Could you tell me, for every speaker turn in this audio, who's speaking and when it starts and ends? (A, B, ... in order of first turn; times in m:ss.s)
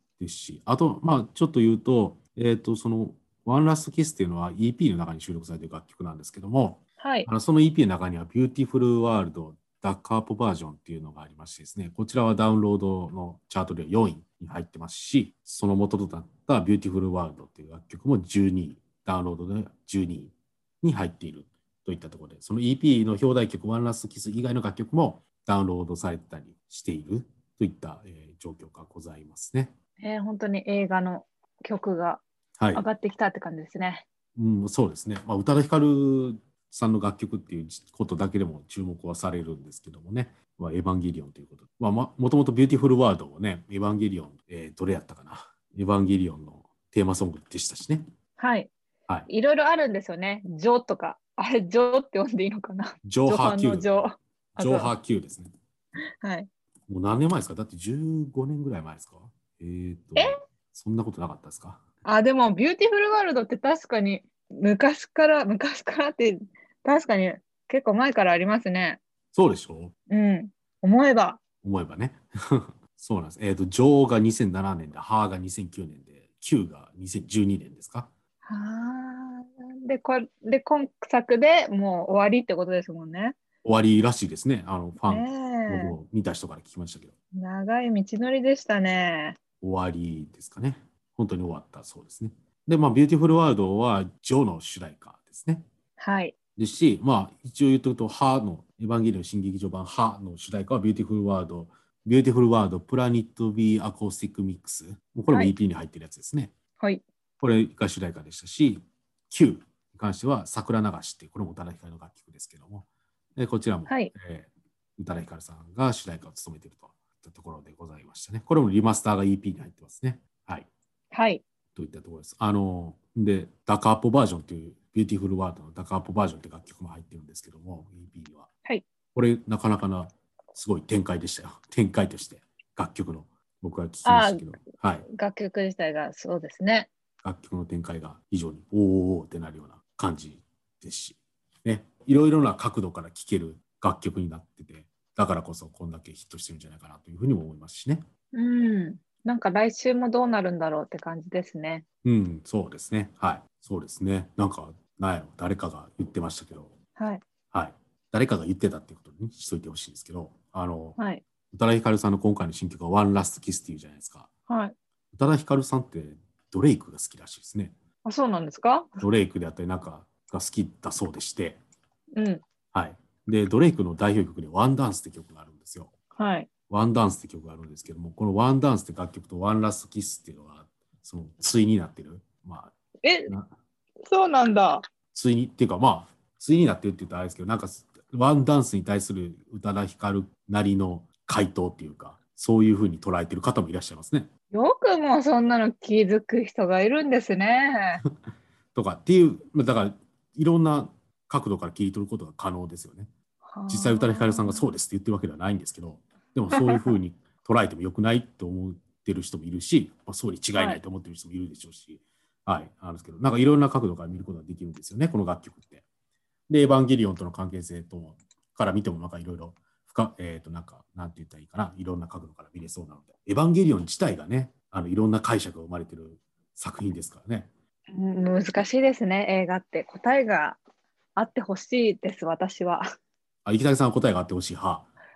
0:00.2-0:29.8 A
0:07.0-0:07.3 B
0:30.0-0:32.2 B
0:32.6-0:32.8 A
0:32.7-0:34.1 B
0:34.4-0:48.0 A
0:48.4-0:48.7 B
0:49.3-0:54.9 B
0:53.0-0:53.9 A
0:54.6-0:55.5 A
0:56.2-0:56.5 B
0:56.9-1:01.8 A
1:02.0-1:09.0 B
1:09.3-1:10.0 A
1:10.1-1:11.4 B
1:11.6-1:18.1 A
1:18.4-1:23.4 B
1:23.6-1:27.1 A
1:25.1-1:25.9 B
1:27.4-1:29.4 B
1:29.6-1:35.7 A
1:36.0-1:36.3 B
1:36.6-1:46.5 A
1:47.4-2:00.7 A
1:53.9-1:54.1 B
2:01.1-2:01.4 B
2:01.8-2:08.5 A
2:09.2-2:15.1 A
2:14.0-2:14.5 B
2:15.1-2:16.9 B
2:17.2-2:28.0 A
2:28.3-2:31.8 B
2:32.0-2:36.7 A
2:37.0-2:37.2 B
2:37.5-2:41.0 A
2:41.0-2:41.2 B
2:41.5-2:44.3 A
2:44.5-2:44.8 B
2:45.1-2:47.7 A
2:48.0-2:49.0 B
2:49.0-2:51.6 A
2:52.2-2:52.4 B
2:52.7-2:55.9 A
2:56.2-2:56.5 B
2:56.7-3:02.7 A
3:03.0-3:03.3 B
3:03.3-3:03.5 A
3:04.0-3:04.8 B
3:05.1-3:14.3 A
3:14.5-3:18.0 B
3:18.8-3:23.1 A
3:23.4-3:24.6 B
3:23.7-3:35.8 A
3:26.5-3:26.9 B
3:36.5-3:47.5 A
3:47.9-3:50.6 B
3:51.2-3:52.8 B
3:53.4-3:54.9 A